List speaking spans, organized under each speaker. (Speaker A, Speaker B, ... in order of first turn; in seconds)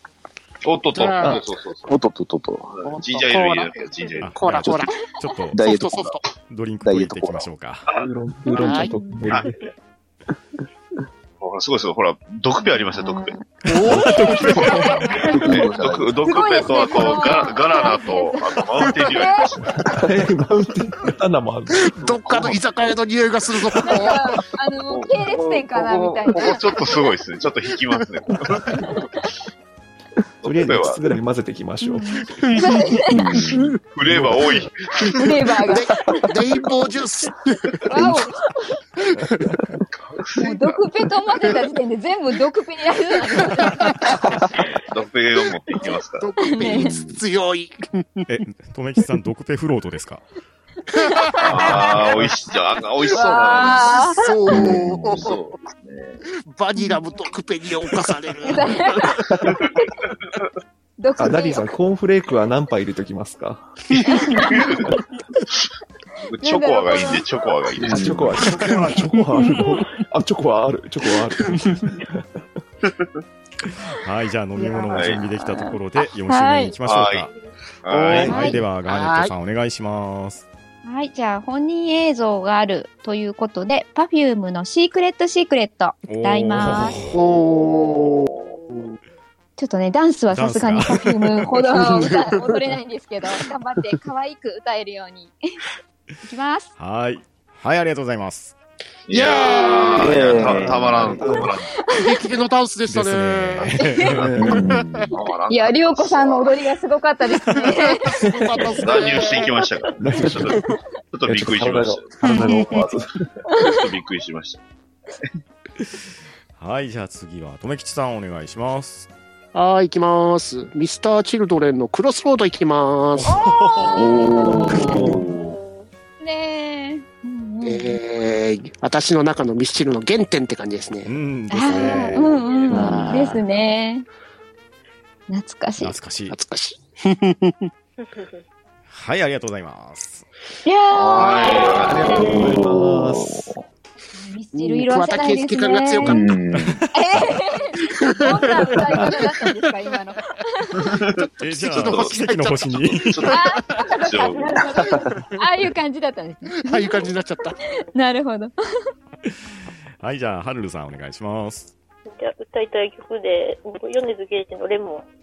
Speaker A: 0.6-2.0, 2.7-4.3, 11.4-13.4, 14.6-20.1, 24.9-28.9, 30.4-31.0, 33.9-35.2, 39.9-40.8, 44.5-46.3, 51.4-54.1, 55.0-56.2, 64.0-64.8, 66.2-68.1, 74.9-75.2, 76.8-77.3, 77.8-78.3, 87.3-88.6, 99.1-101.7, 105.1-106.6, 108.7-112.9, 113.6-114.6, 140.9-142.8, 151.1-154.6
Speaker B: 0.9-1.4, 2.9-5.1, 5.6-6.3, 8.6-8.9, 13.7-15.3, 21.8-24.2, 32.3-33.8, 35.0-37.7, 39.0-39.4, 43.6-44.4, 46.2-48.4, 50.9-52.3, 53.6-55.4, 56.5-59.3, 64.1-64.5, 68.5-69.0, 77.9-79.3, 87.1-89.0, 91.7-92.6, 99.1-100.2, 101.9-103.8, 104.5-105.1, 107.7-109.6, 119.5-123.3, 124.8-125.1, 127.6-131.2, 132.7-133.4, 136.3-137.7, 144.5-146.3, 147.9-149.5, 151.0-153.9, 156.6-157.6
Speaker C: 1.9-2.7, 5.5-6.2, 6.8-7.5, 15.2-16.5, 33.1-33.7, 46.7-47.2, 54.5-55.5, 67.8-68.5, 100.0-101.2, 104.4-105.2, 124.0-125.5, 142.1-143.5, 146.0-146.8
Speaker D: 4.2-5.6, 6.5-7.9, 14.1-14.6, 48.3-50.2, 73.9-77.3, 78.0-80.5, 86.1-87.2, 90.3-91.5, 96.8-98.5, 102.9-104.3, 116.6-119.1, 123.3-124.0, 131.1-132.3, 135.8-136.4, 138.9-140.2, 151.4-153.3, 160.0-161.7
Speaker E: 7.9-9.7, 13.8-15.1, 19.8-22.6, 30.4-32.3, 34.0-34.7, 59.3-59.6, 61.2-63.7, 67.8-72.3, 100.3-101.6, 104.2-104.6, 108.3-108.6, 110.0-113.3, 124.8-125.2, 132.8-133.2, 141.8-143.6
Speaker F: 8.5-9.2, 12.7-13.5, 14.0-15.2, 16.2-19.5, 23.9-26.8, 31.8-33.3, 35.2-36.2, 37.9-38.8, 40.4-44.4, 46.4-47.0, 50.9-51.4, 53.1-54.2, 56.8-57.1, 58.5-59.1, 61.0-61.7, 64.1-64.6, 66.4-67.3, 74.6-76.8, 78.2-78.6, 80.8-87.0, 89.6-95.3, 96.2-96.7, 101.8-102.2, 103.8-104.2, 105.5-108.2, 112.3-112.7, 113.5-113.7, 123.2-124.9, 126.2-128.0, 131.5-134.1, 135.3-136.0, 140.7-141.9, 144.2-146.3, 146.9-150.9, 153.3-157.1, 157.8-158.5
Speaker G: 109.1-110.2, 125.1-125.9, 131.7-132.8, 138.1-138.4, 154.2-154.7, 162.1-165.1